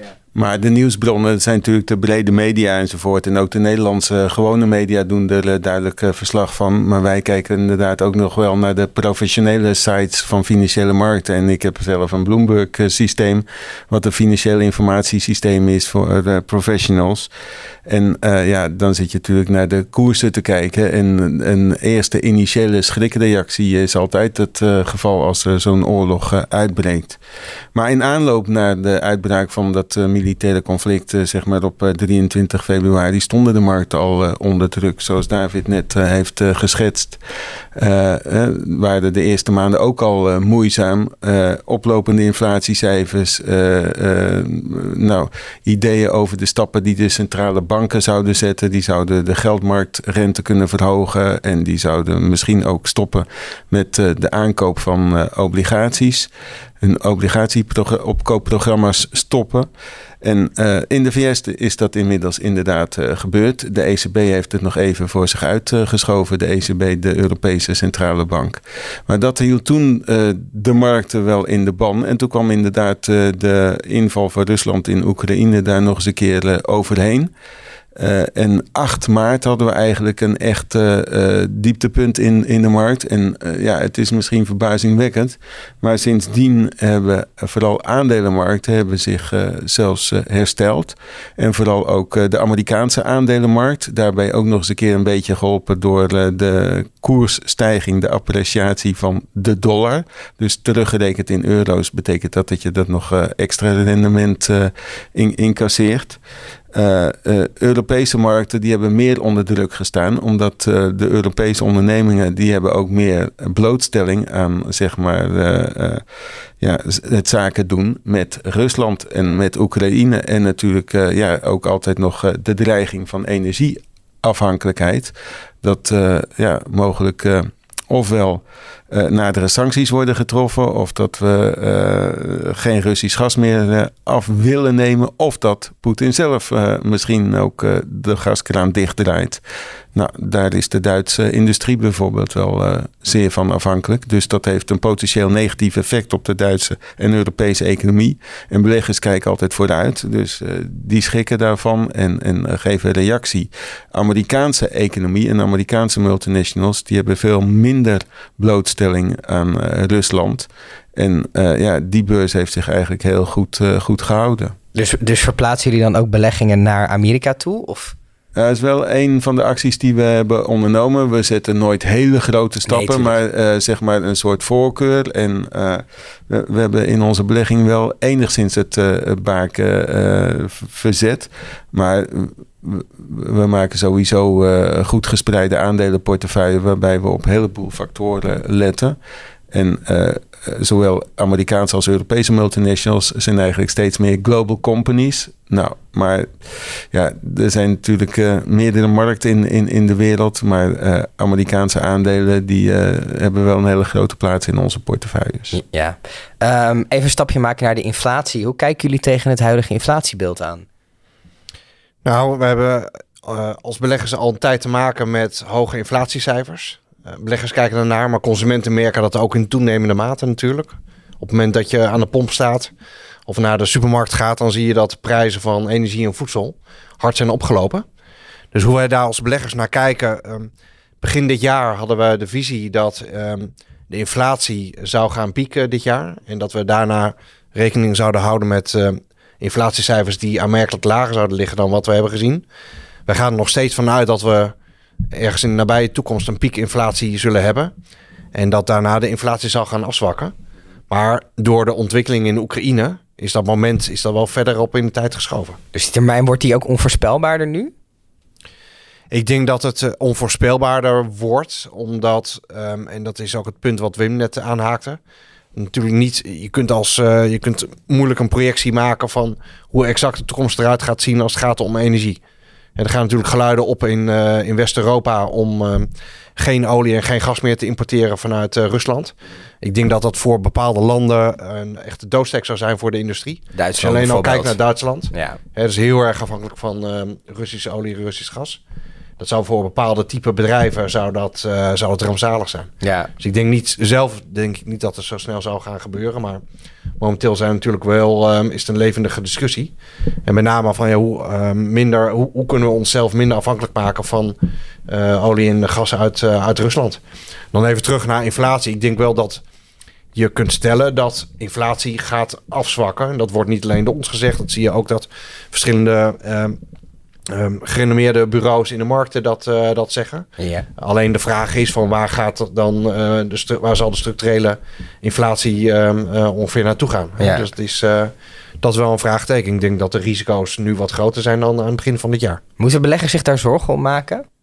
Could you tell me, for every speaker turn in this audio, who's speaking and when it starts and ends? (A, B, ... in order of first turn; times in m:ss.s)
0:00.3-0:17.3 A
0:17.8-0:27.2 A
0:27.7-0:37.2 A
0:37.7-0:56.3 A
0:56.8-0:59.7 A
1:00.2-1:17.3 A
1:17.9-1:46.2 A
1:46.7-1:56.0 A
1:56.6-2:19.4 A
2:19.9-2:44.6 A
2:44.7-2:48.0 B
2:48.3-3:09.0 A
2:52.6-2:53.1 B
3:09.5-3:25.6 A
3:25.5-3:30.6 B
3:32.0-3:42.7 C
3:43.3-3:47.8 C
3:48.5-3:50.5 C
3:51.0-4:02.4 C
4:03.1-4:04.5 C
4:05.1-4:07.7 C
4:08.3-4:10.3 C
4:10.9-4:15.6 C
4:15.7-4:17.7 B
4:19.1-4:25.0 C
4:25.5-4:32.2 C
4:32.8-4:48.6 C
4:43.5-4:44.6 B
4:45.1-4:45.4 B
4:49.2-4:56.4 C
4:52.8-4:53.1 B
4:57.0-4:59.7 C
5:00.2-5:07.0 C
5:07.5-5:09.4 C
5:10.1-5:16.6 C
5:17.3-5:32.4 C
5:20.4-5:20.7 B
5:27.2-5:27.5 B
5:32.6-5:34.2 B